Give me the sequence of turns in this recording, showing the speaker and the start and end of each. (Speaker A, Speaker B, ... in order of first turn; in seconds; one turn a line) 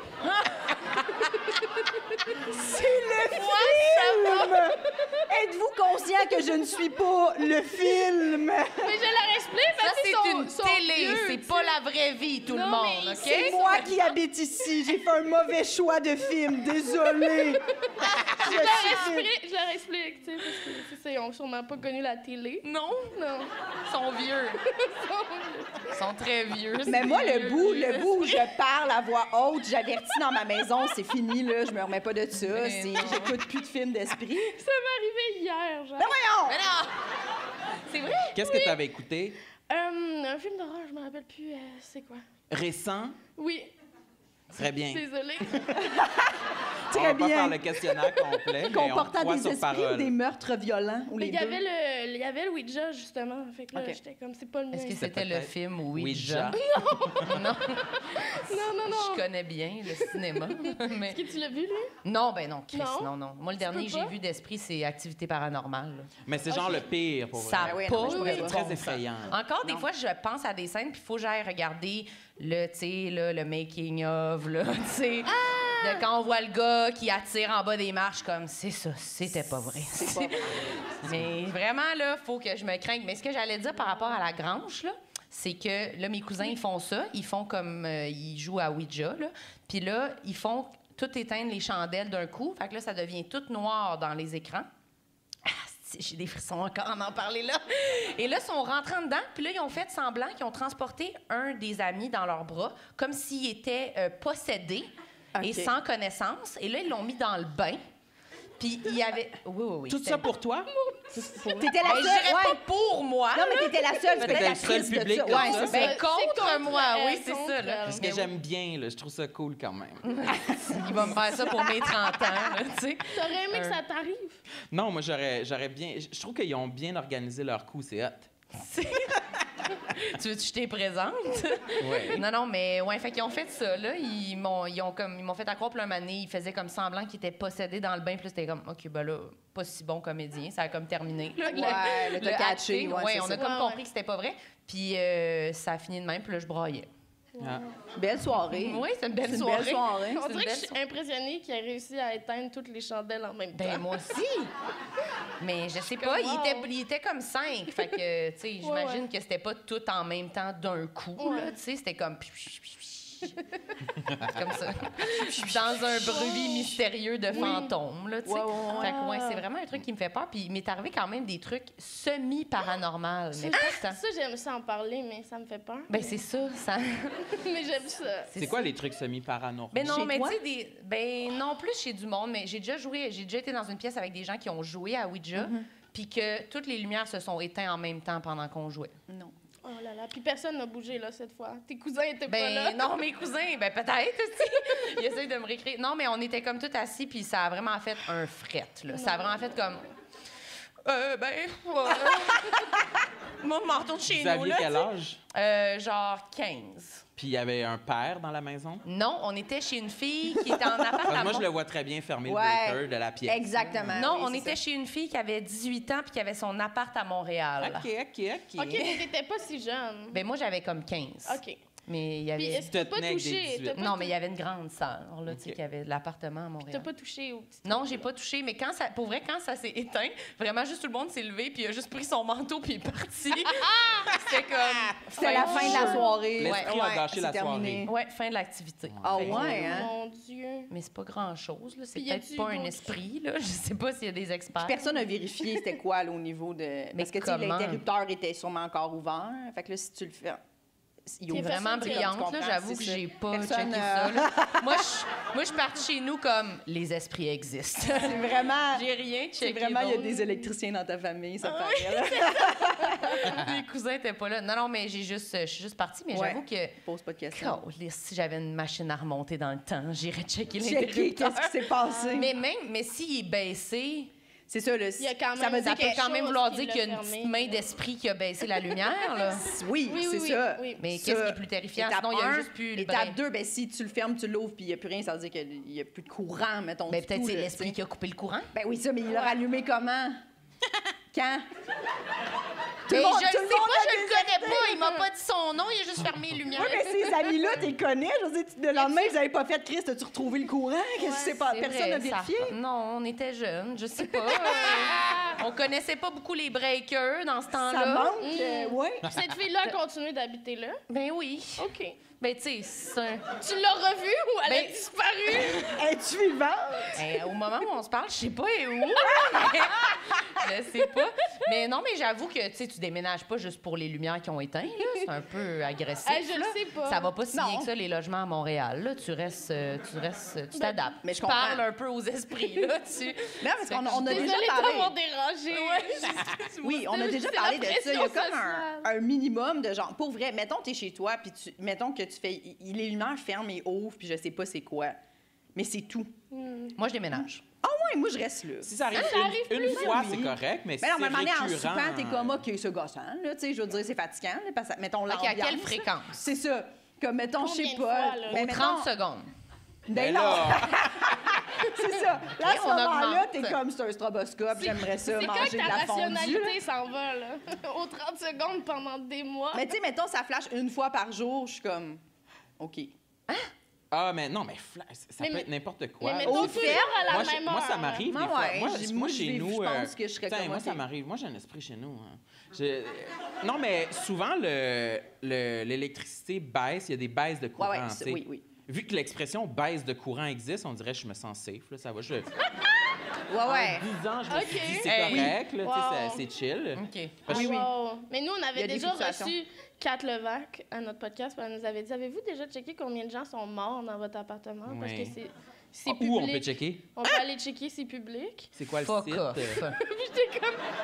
Speaker A: 0.2-1.3
Speaker B: 1.2-1.8
Speaker C: 2.5-4.8
Speaker B: 3.1-5.2
Speaker C: 5.3-9.0
Speaker B: 8.8-11.8
Speaker A: 9.8-13.9
Speaker B: 12.4-13.9
Speaker C: 13.3-17.6
Speaker B: 17.1-23.5
Speaker C: 18.4-19.3
Speaker A: 18.6-18.9
Speaker A: 22.6-23.1
Speaker A: 23.9-24.6
Speaker B: 24.7-25.9
Speaker A: 25.9-28.4
Speaker C: 26.9-34.6
Speaker A: 32.4-33.4
Speaker B: 34.5-36.1
Speaker C: 36.0-36.6
Speaker A: 36.5-36.9
Speaker A: 37.9-38.4
Speaker D: 38.3-39.4
Speaker B: 38.4-38.7
Speaker B: 39.7-42.2
Speaker D: 42.5-43.2
Speaker B: 43.4-43.7
Speaker D: 44.5-45.7
Speaker B: 44.8-45.7
Speaker C: 45.7-46.4
Speaker C: 46.9-47.6
Speaker D: 46.9-50.1
Speaker C: 48.7-51.6
Speaker B: 51.2-55.0
Speaker C: 53.7-54.0
Speaker A: 54.7-56.6
Speaker D: 55.0-57.2
Speaker B: 56.5-59.3
Speaker A: 57.2-58.0
Speaker A: 58.8-61.2
Speaker B: 59.9-61.9
Speaker A: 62.0-66.8
Speaker B: 62.7-64.1
Speaker D: 66.2-69.4
Speaker A: 67.3-94.7
Speaker C: 67.6-69.0
Speaker B: 75.3-76.0
Speaker C: 79.9-80.7
Speaker A: 95.4-104.9
Speaker C: 105.3-105.7
Speaker A: 105.4-107.8
Speaker A: 108.6-110.3
Speaker D: 109.9-112.0
Speaker B: 110.8-111.5
Speaker C: 111.6-112.6
Speaker A: 111.8-114.7
Speaker C: 113.3-116.0
Speaker D: 114.2-115.9
Speaker B: 115.3-118.2
Speaker A: 115.6-118.3
Speaker D: 117.9-120.1
Speaker A: 120.0-123.8
Speaker C: 120.7-121.1
Speaker B: 123.1-124.4
Speaker D: 124.7-128.3
Speaker A: 128.5-129.2
Speaker A: 129.8-146.9
Speaker D: 131.8-132.2
Speaker B: 141.4-142.2
Speaker C: 141.5-143.4
Speaker B: 143.3-143.8
Speaker C: 147.9-150.2
Speaker A: 148.5-150.7
Speaker B: 150.1-153.8
Speaker A: 153.5-154.5
Speaker A: 155.4-163.3
Speaker B: 155.9-156.7
Speaker B: 158.6-159.0
Speaker B: 161.2-161.5
Speaker A: 164.2-174.0
Speaker C: 165.2-166.3
Speaker B: 166.0-166.7
Speaker B: 167.3-167.7
Speaker C: 167.3-167.7
Speaker C: 168.2-168.9
Speaker B: 168.7-169.4
Speaker B: 173.3-176.0
Speaker A: 175.9-177.3
Speaker B: 177.3-178.3
Speaker A: 178.3-178.7
Speaker D: 178.4-180.1
Speaker A: 179.7-188.9
Speaker C: 179.8-180.4
Speaker C: 185.3-185.7
Speaker C: 189.1-189.3
Speaker B: 189.6-192.9
Speaker A: 192.3-199.8
Speaker B: 198.9-199.4
Speaker A: 200.8-202.7
Speaker A: 203.4-207.0
Speaker D: 204.1-205.2
Speaker D: 207.2-208.8
Speaker A: 208.8-211.5
Speaker C: 210.5-211.1
Speaker D: 211.1-214.0
Speaker C: 212.2-214.6
Speaker A: 213.9-217.9
Speaker D: 217.6-218.9
Speaker B: 218.6-220.2
Speaker A: 220.1-222.7
Speaker B: 221.2-221.6
Speaker B: 222.3-224.1
Speaker D: 222.7-223.8
Speaker A: 223.7-226.9
Speaker D: 225.3-225.6
Speaker B: 226.7-228.0
Speaker A: 227.6-236.7
Speaker B: 233.6-234.1
Speaker C: 235.1-237.9
Speaker B: 235.2-236.3
Speaker D: 235.6-237.9
Speaker A: 237.8-239.8
Speaker D: 239.0-239.5
Speaker C: 239.0-239.9
Speaker B: 239.2-240.7
Speaker A: 240.7-244.8
Speaker B: 241.9-242.9
Speaker C: 244.6-250.4
Speaker A: 246.9-247.8
Speaker C: 251.1-254.8
Speaker A: 251.3-260.3
Speaker B: 251.3-252.2
Speaker C: 257.9-258.9
Speaker C: 259.4-263.2
Speaker A: 261.4-266.8
Speaker C: 266.1-267.6
Speaker A: 267.3-271.6
Speaker C: 270.6-272.3
Speaker B: 271.8-272.2
Speaker A: 272.1-274.1
Speaker C: 274.5-276.0
Speaker B: 275.0-277.6
Speaker A: 275.6-279.4
Speaker C: 279.4-287.8
Speaker B: 279.9-280.8
Speaker A: 280.8-283.2
Speaker A: 286.9-288.5
Speaker C: 288.5-290.2
Speaker C: 291.1-291.4
Speaker C: 292.9-294.7
Speaker A: 292.9-296.8
Speaker C: 296.5-302.6
Speaker B: 296.6-297.4
Speaker B: 298.8-299.1
Speaker B: 301.0-301.4
Speaker A: 301.4-308.1
Speaker B: 304.3-305.4
Speaker C: 307.5-309.1
Speaker B: 308.2-310.8
Speaker A: 310.9-313.3
Speaker B: 311.6-312.0
Speaker B: 313.4-315.8
Speaker A: 314.4-314.8
Speaker A: 315.3-315.5
Speaker C: 315.5-317.0
Speaker A: 316.9-334.4
Speaker B: 326.0-327.1
Speaker C: 327.3-327.7
Speaker C: 331.0-331.6
Speaker C: 333.4-334.9
Speaker B: 333.9-336.3
Speaker A: 335.5-337.0
Speaker C: 336.6-345.0
Speaker B: 336.8-338.9
Speaker C: 345.5-346.1
Speaker B: 346.3-346.7
Speaker A: 346.8-347.4
Speaker C: 347.1-348.7
Speaker D: 348.6-352.4
Speaker B: 348.9-350.1
Speaker C: 349.7-358.9
Speaker A: 355.1-356.1
Speaker B: 357.4-358.4
Speaker A: 358.3-359.3
Speaker C: 359.9-366.6
Speaker D: 359.9-360.8
Speaker A: 362.4-363.6
Speaker B: 364.6-369.7
Speaker C: 369.5-372.0
Speaker C: 372.6-372.9
Speaker D: 373.9-392.3
Speaker B: 375.2-375.5
Speaker B: 376.0-378.1
Speaker C: 376.2-376.9
Speaker C: 378.1-380.8
Speaker C: 387.6-388.4
Speaker C: 393.3-393.9
Speaker D: 393.4-397.6
Speaker B: 394.3-396.2
Speaker A: 394.8-395.4
Speaker A: 396.7-397.3
Speaker C: 397.3-397.7
Speaker B: 397.3-408.5
Speaker C: 398.5-399.3
Speaker D: 404.7-405.1
Speaker D: 405.9-407.2
Speaker D: 408.6-409.6
Speaker A: 408.8-409.8
Speaker B: 409.7-410.6